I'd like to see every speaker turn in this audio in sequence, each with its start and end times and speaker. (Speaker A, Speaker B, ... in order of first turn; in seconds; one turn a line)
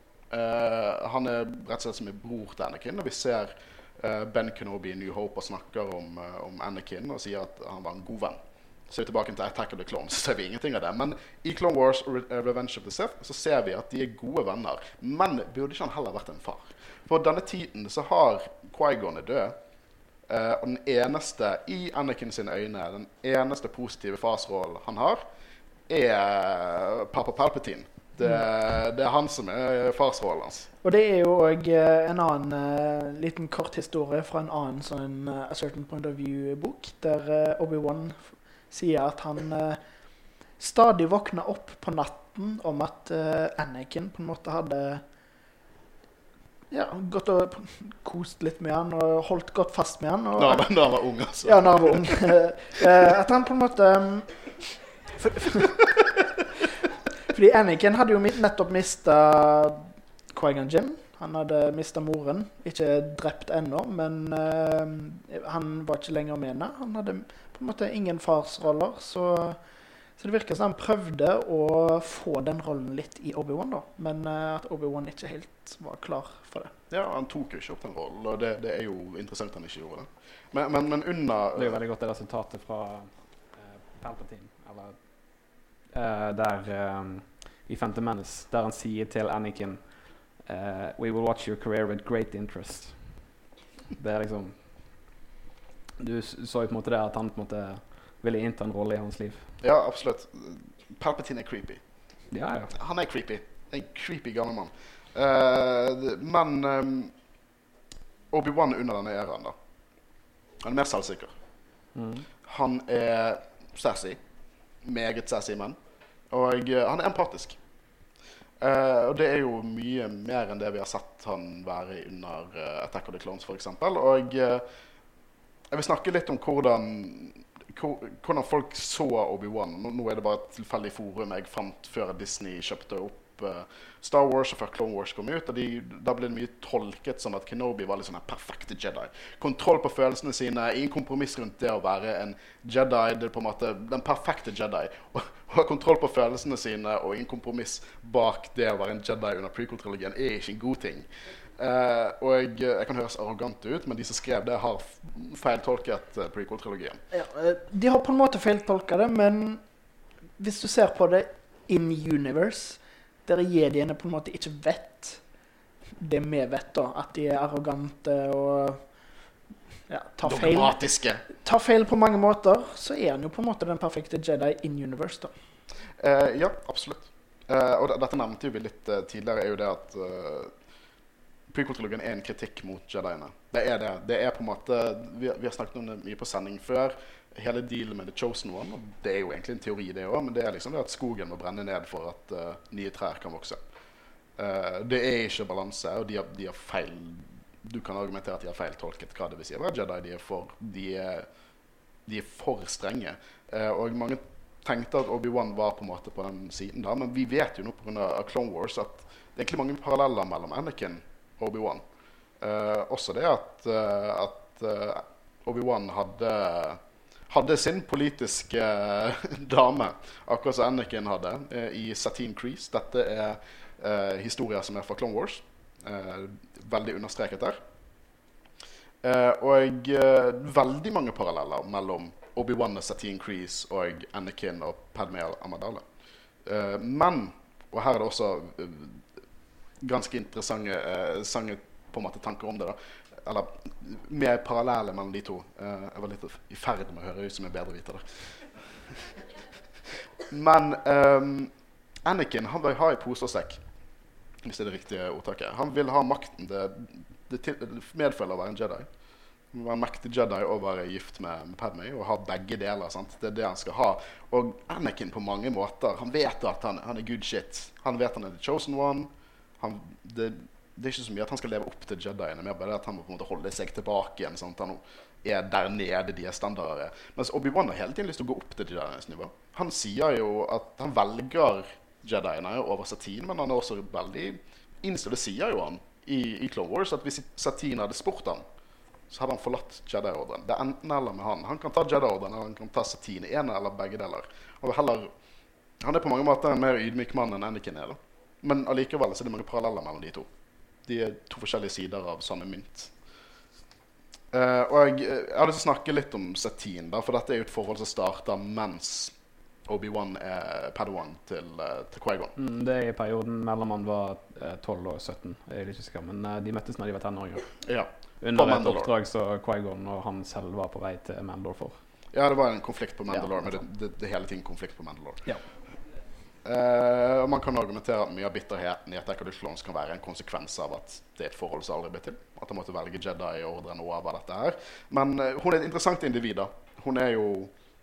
Speaker A: 0.3-19.6
Speaker A: 20.3-25.2
Speaker A: 25.9-30.7
Speaker B: 30.8-39.8
Speaker B: 40.5-45.0
Speaker B: 46.7-50.7
Speaker A: 50.4-52.2
Speaker B: 51.4-54.3
Speaker B: 55.2-55.8
Speaker B: 57.3-69.6
Speaker B: 70.2-76.7
Speaker A: 76.9-81.8
Speaker C: 81.6-85.0
Speaker C: 85.9-89.8
Speaker C: 90.4-93.2
Speaker C: 94.0-94.6
Speaker C: 96.0-99.5
Speaker A: 99.6-101.8
Speaker C: 102.3-102.7
Speaker A: 102.7-107.1
Speaker A: 108.3-109.5
Speaker A: 110.6-111.3
Speaker C: 112.0-112.3
Speaker A: 112.5-114.2
Speaker A: 114.8-115.8
Speaker A: 116.3-117.6
Speaker A: 118.6-124.6
Speaker A: 125.7-151.1
Speaker A: 151.6-157.0
Speaker B: 157.1-159.6
Speaker B: 160.4-165.2
Speaker B: 166.0-168.8
Speaker B: 169.9-170.8
Speaker A: 170.2-171.2
Speaker B: 171.4-175.3
Speaker A: 176.0-180.5
Speaker A: 181.5-193.6
Speaker A: 194.4-201.3
Speaker A: 202.1-211.8
Speaker A: 212.4-227.6
Speaker A: 229.0-235.8
Speaker A: 236.4-239.0
Speaker A: 239.8-249.0
Speaker A: 250.3-251.5
Speaker A: 252.0-253.6
Speaker A: 254.4-258.9
Speaker A: 259.5-288.4
Speaker A: 289.1-295.1
Speaker A: 295.8-300.3
Speaker A: 300.9-302.9
Speaker A: 304.3-309.1
Speaker A: 309.7-312.3
Speaker C: 312.4-317.6
Speaker A: 317.6-318.9
Speaker C: 318.2-321.8
Speaker A: 322.1-325.3
Speaker C: 323.1-323.6
Speaker A: 326.4-337.5